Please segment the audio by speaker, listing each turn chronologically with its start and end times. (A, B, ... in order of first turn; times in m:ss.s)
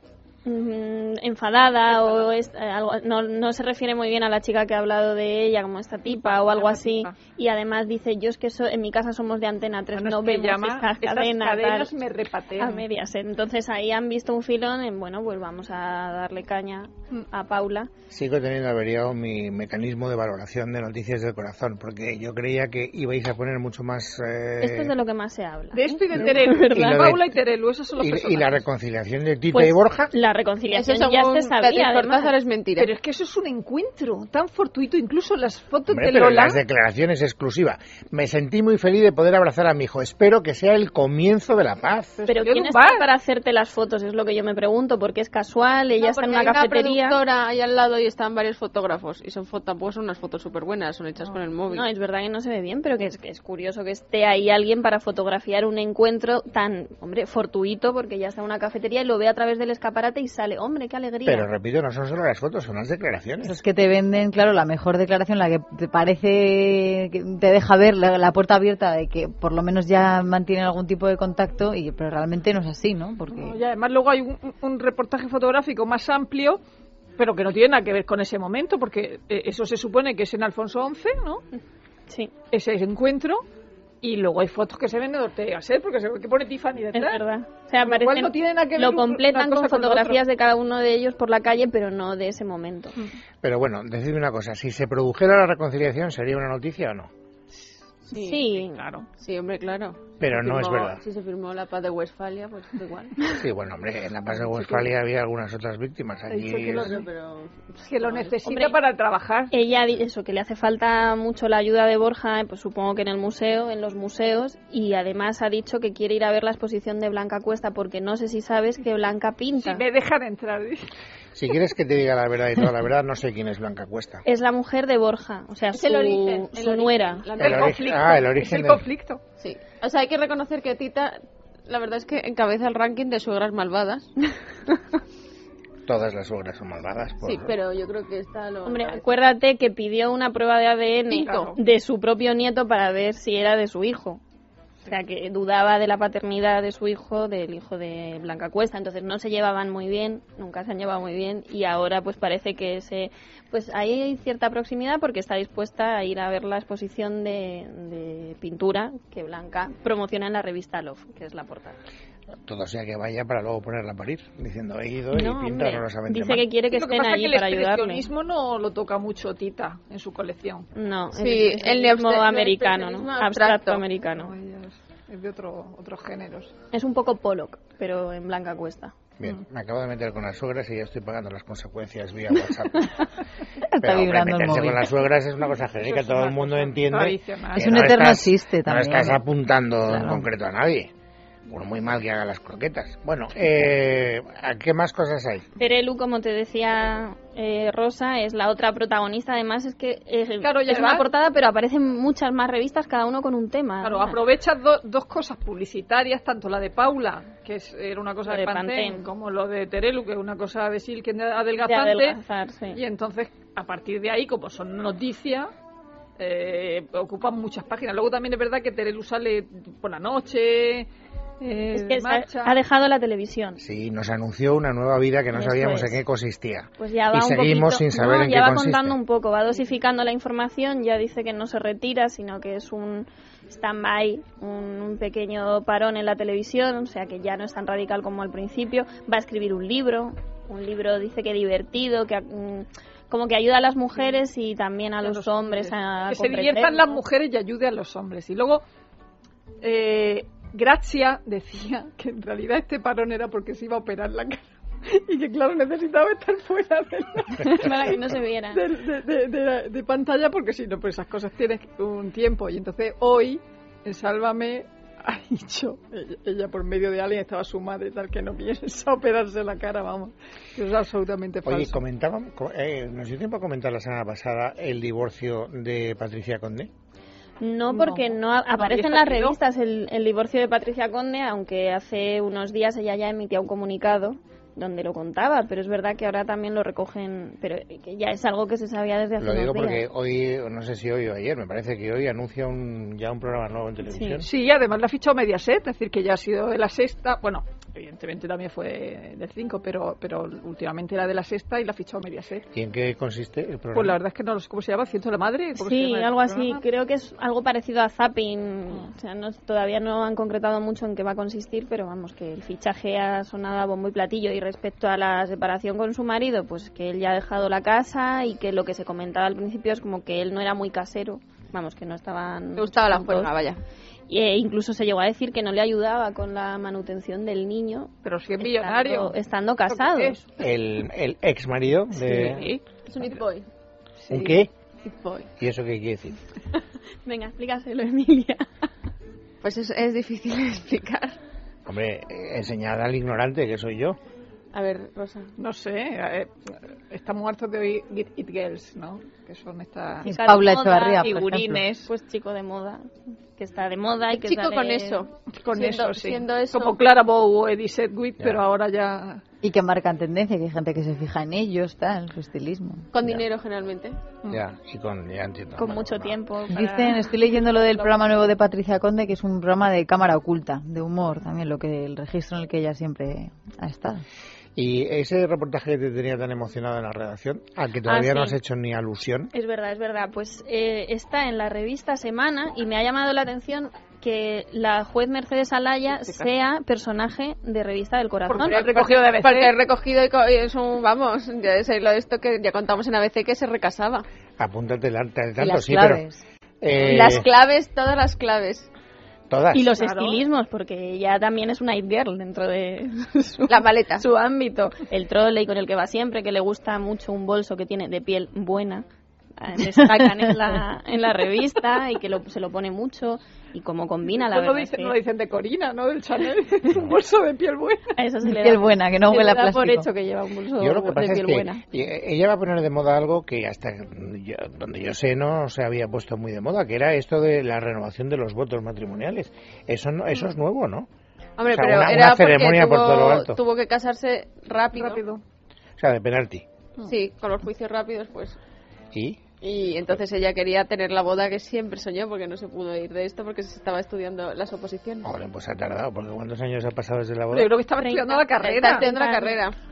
0:00.4-0:11.9 A
0:01.9-0:02.3 B
0:06.1-0:07.2 B
0:10.0-0:12.9 B
0:12.6-0:17.9 A
0:18.1-0:24.9 C
0:24.6-0:27.1 A
0:25.7-0:28.6 B
0:26.7-0:27.2 C
0:28.0-0:30.1 C
0:29.5-0:32.3 A
0:30.7-0:32.9 D
0:32.8-0:36.6 B
0:35.9-0:42.2 C
0:42.2-0:43.0 B
0:42.3-0:47.2 A
0:46.0-0:51.9 D
0:51.7-1:01.5 A
1:01.3-1:03.6 C
1:03.4-1:13.6 E
1:13.3-1:16.6 B
1:17.2-1:21.4 B
1:22.5-1:23.4 B
1:24.0-1:27.2 B
1:26.9-1:32.9 A
1:27.8-1:30.2 B
1:33.4-1:37.1 C
1:38.1-1:38.5 D
1:38.1-1:38.8 A
1:38.6-1:39.1 B
1:39.2-1:43.3 D
1:40.2-1:41.0 C
1:43.3-1:47.0 C
1:46.3-1:47.1 B
1:46.7-1:48.8 D
1:47.9-1:49.5 B
1:49.5-1:59.8 A
1:59.6-2:00.8 B
2:01.4-2:04.2 C
2:04.2-2:07.3 A
2:05.8-2:06.5 B
2:05.8-2:07.9 D
2:07.4-2:08.8 C
2:07.4-2:09.2 B
2:09.4-2:14.1 D
2:15.9-2:17.5 C
2:17.2-2:19.1 D
2:18.6-2:24.2 A
2:21.1-2:21.5 D
2:21.1-2:21.6 B
2:24.9-2:41.8 A
2:42.4-2:46.5 C
2:45.1-2:48.1 A
2:46.7-2:50.7 B
2:50.8-2:54.3 A
2:51.1-2:53.8 D
2:54.2-2:56.5 B
2:56.7-2:58.9 A
2:59.2-3:02.9 C
3:03.7-3:04.8 E
3:03.8-3:10.9 C
3:05.8-3:07.7 B
3:07.6-3:09.2 E
3:09.8-3:10.2 E
3:11.5-3:15.4 C
3:15.6-3:24.2 A
3:20.4-3:21.1 B
3:23.8-3:32.2 B
3:28.2-3:29.1 A
3:31.6-3:32.8 A
3:32.7-3:35.5 B
3:36.2-3:40.9 B
3:41.4-3:42.6 B
3:41.7-3:43.6 A
3:43.6-3:49.0 C
3:45.3-3:46.0 A
3:46.8-4:07.0 A
4:05.0-4:08.6 B
4:09.6-4:18.0 B
4:17.4-4:18.6 A
4:18.5-4:31.8 B
4:31.4-4:36.7 C
4:37.4-4:49.9 A
4:37.7-4:39.4 B
4:49.2-4:54.3 C
4:53.9-4:54.2 A
4:54.2-5:02.5 B
5:02.5-5:04.0 C
5:03.7-5:06.6 B
5:05.6-5:23.3 A
5:22.6-5:23.6 D
5:24.1-5:30.2 A
5:28.0-5:29.2 B
5:29.7-5:30.2 B
5:30.4-5:32.5 C
5:32.0-5:33.2 B
5:32.9-5:33.5 D
5:34.1-5:34.5 C
5:34.8-5:35.3 D
5:35.4-5:36.2 C
5:37.0-5:38.4 A
5:39.4-5:41.2 D
5:41.6-5:44.0 C
5:44.5-5:45.3 D
5:45.4-5:50.1 B
5:50.0-5:51.6 E
5:50.1-5:51.1 A
5:51.0-5:51.9 B
5:51.8-5:55.0 A
5:54.1-5:56.8 D
5:55.4-5:59.2 B
5:59.4-6:02.9 E
6:02.9-6:04.0 D
6:04.3-6:06.2 C
6:05.6-6:07.1 A
6:06.5-6:14.0 E
6:14.6-6:19.3 C
6:17.9-6:18.4 A
6:19.3-6:28.6 A
6:25.9-6:26.3 B
6:28.3-6:29.6 B
6:28.5-6:34.0 D
6:34.4-6:36.0 C
6:35.4-6:36.2 E
6:36.6-6:37.3 C
6:36.8-6:38.7 D
6:39.3-6:39.7 C
6:39.5-6:48.8 A
6:39.8-6:40.2 B
6:43.5-6:44.0 D
6:49.4-6:55.0 A
6:54.1-6:57.9 B
6:58.0-7:01.6 A
6:58.2-6:59.9 E
7:00.6-7:10.9 C
7:11.4-7:15.0 D
7:11.5-7:13.4 C
7:14.7-7:15.2 B
7:15.8-7:16.4 C
7:16.8-7:18.4 D
7:18.9-7:19.2 C
7:19.4-7:25.1 D
7:25.0-7:27.5 C
7:27.3-7:28.9 B
7:27.8-7:29.4 A
7:28.4-7:29.6 D